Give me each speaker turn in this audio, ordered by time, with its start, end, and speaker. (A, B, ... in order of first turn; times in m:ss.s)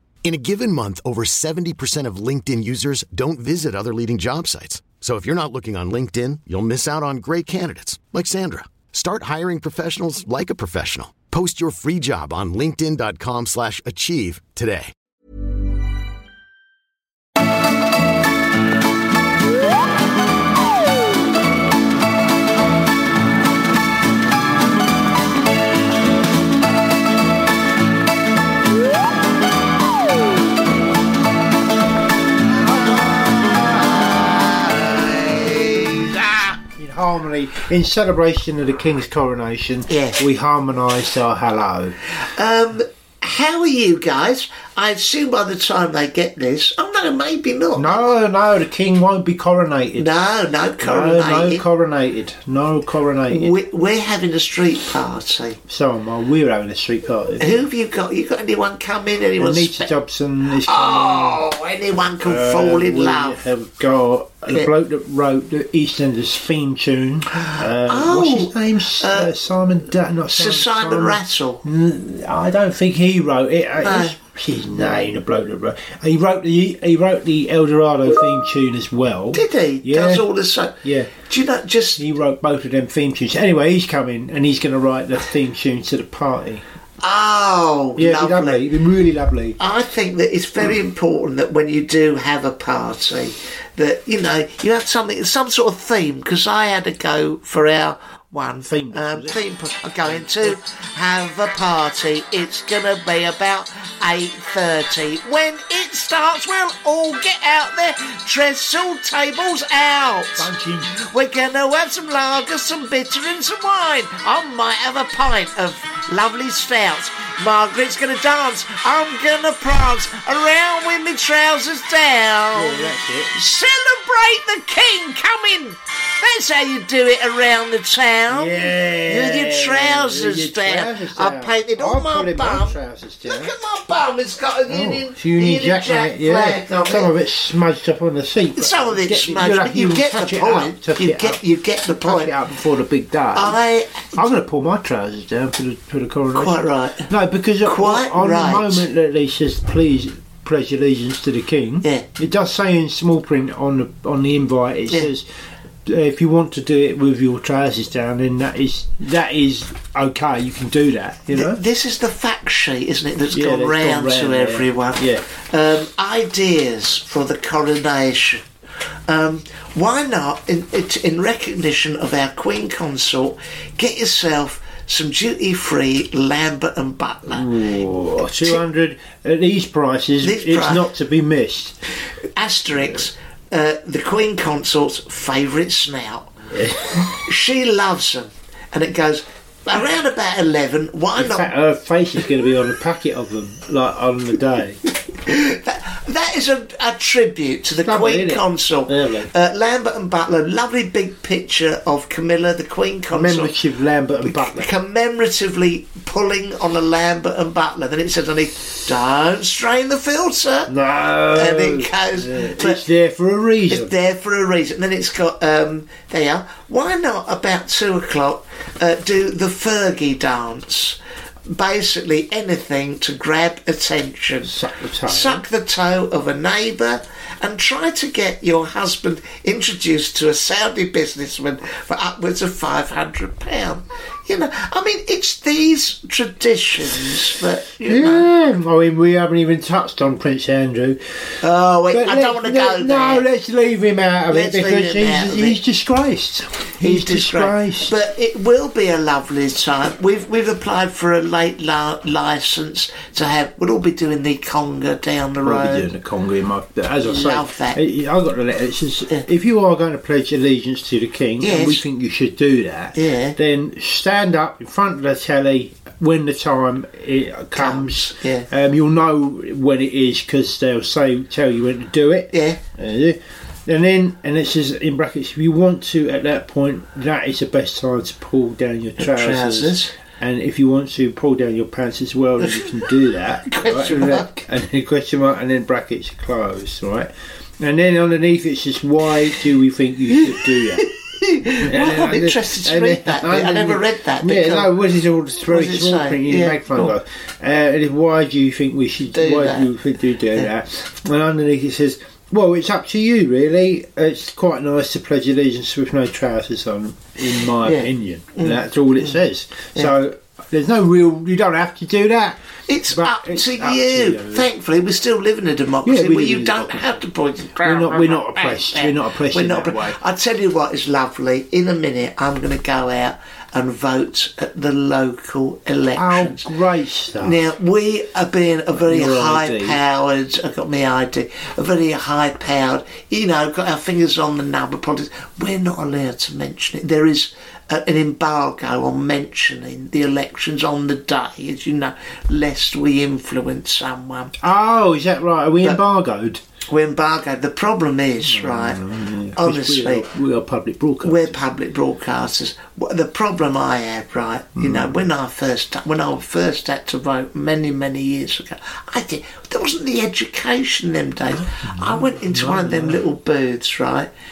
0:00.2-0:14.9 A
0:32.7-0:36.6 B
0:36.7-0:42.0 C
0:39.9-0:40.2 B
0:42.2-0:48.1 B
0:47.8-0:50.1 C
0:50.0-0:51.6 B
0:50.8-0:53.6 C
0:53.3-0:55.6 B
0:55.7-0:57.6 C
0:57.4-0:59.9 B
0:59.4-1:01.4 C
1:00.7-1:03.4 B
1:02.2-1:20.3 C
1:07.8-1:09.3 B
1:10.3-1:11.6 B
1:13.8-1:14.2 B
1:19.3-1:22.0 B
1:20.8-1:21.2 C
1:22.0-1:26.6 C
1:27.0-1:28.6 B
1:28.0-1:29.6 C
1:29.6-2:17.1 B
1:38.6-1:39.4 C
1:40.0-1:40.6 C
1:50.4-1:51.0 C
2:02.5-2:03.4 C
2:08.3-2:13.5 C
2:14.7-2:21.4 C
2:18.6-2:22.4 B
2:22.0-2:23.6 C
2:23.3-2:24.0 B
2:24.1-2:35.3 C
2:26.3-2:27.1 B
2:27.6-2:28.8 B
2:35.9-2:41.6 C
2:41.3-2:48.4 B
2:43.3-2:45.3 C
2:49.1-2:57.6 B
2:57.3-3:01.8 C
3:00.2-3:00.9 B
3:02.4-3:06.3 B
3:06.5-3:07.0 C
3:07.2-3:11.5 B
3:11.2-3:14.8 C
3:15.1-3:23.6 B
3:17.8-3:19.3 C
3:23.1-3:24.7 C
3:24.2-3:30.7 B
3:30.7-3:33.9 C
3:31.3-3:32.8 B
3:33.7-3:58.3 B
3:44.4-3:45.4 C
3:57.8-4:01.0 C
4:01.4-4:03.3 B
4:01.9-4:07.9 C
4:04.3-4:05.6 B
4:06.8-4:15.9 B
4:15.4-4:50.9 C
4:17.0-4:17.8 B
4:21.4-4:21.8 B
4:22.9-4:23.4 B
4:27.6-4:28.5 B
4:32.3-4:32.6 B
4:39.0-4:40.0 B
4:42.4-4:42.7 B
4:43.4-4:44.4 B
4:51.2-4:54.8 B
4:51.6-5:14.5 C
4:55.4-4:57.0 B
4:59.1-4:59.7 B
5:07.6-5:09.2 B
5:12.7-5:26.5 B
5:15.8-5:17.0 C
5:17.6-5:20.0 C
5:25.9-5:27.4 C
5:27.2-5:44.4 B
5:28.7-5:29.8 C
5:44.4-5:46.4 C
5:46.7-5:48.8 B
5:48.2-5:51.4 C
5:49.4-5:50.1 B
5:51.0-6:04.1 B
5:54.6-5:55.0 C
6:01.3-6:03.0 C